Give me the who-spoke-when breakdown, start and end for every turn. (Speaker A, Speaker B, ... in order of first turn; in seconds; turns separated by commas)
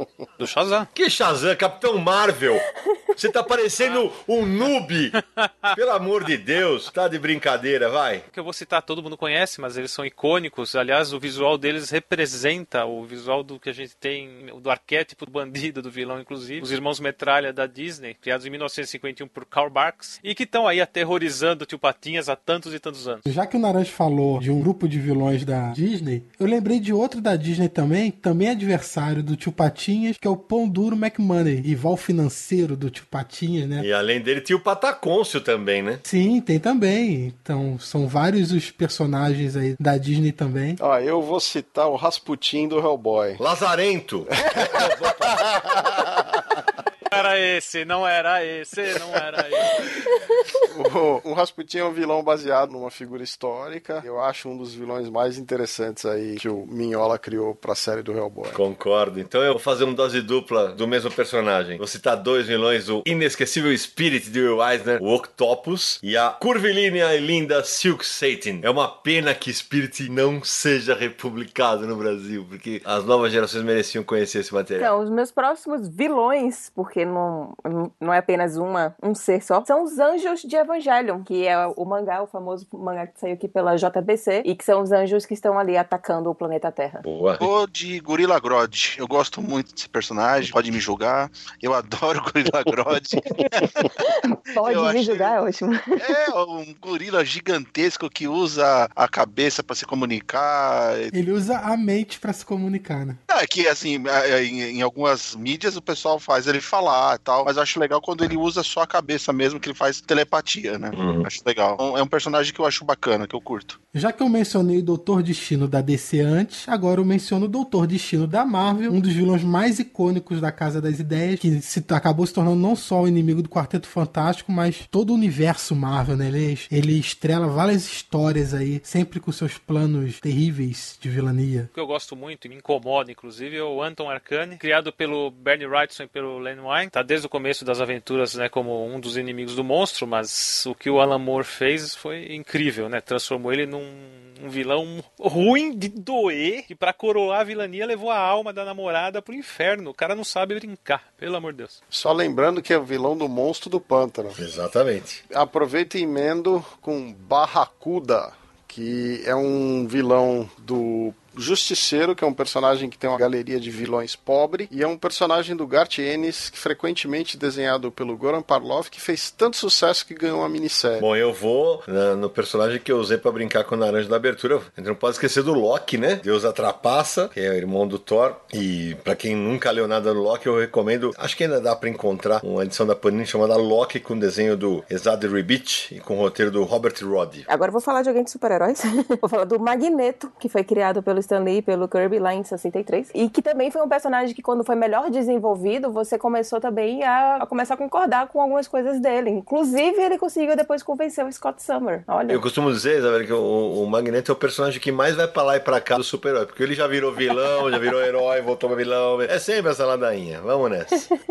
Speaker A: 0.4-0.9, Speaker B: 0.9-5.2, Speaker A: 5.4-5.7, Speaker B: 5.7-8.2, Speaker A: 8.3-23.3, Speaker C: 23.3-33.9, Speaker B: 33.8-36.0, Speaker C: 36.0-40.8, Speaker D: 40.8-43.4, Speaker B: 43.4-46.4, Speaker D: 44.3-46.1, Speaker A: 47.1-50.0, Speaker D: 50.7-58.6, Speaker B: 58.5-74.9, Speaker E: 74.8-87.0, Speaker B: 87.0-87.4, Speaker F: 87.4-94.0, Speaker E: 93.9-96.0, Speaker F: 94.6-95.3, Speaker F: 96.0-101.1, Speaker C: 101.1-103.2, Speaker F: 103.3-113.8, Speaker B: 111.0-111.2, Speaker C: 113.9-131.7, Speaker A: 131.7-151.8, Speaker D: 151.9-154.4, Speaker B: 154.4-155.2, Speaker D: 155.3-171.0, Speaker B: 171.0-187.5, Speaker E: 187.5-202.4, Speaker B: 202.3-211.1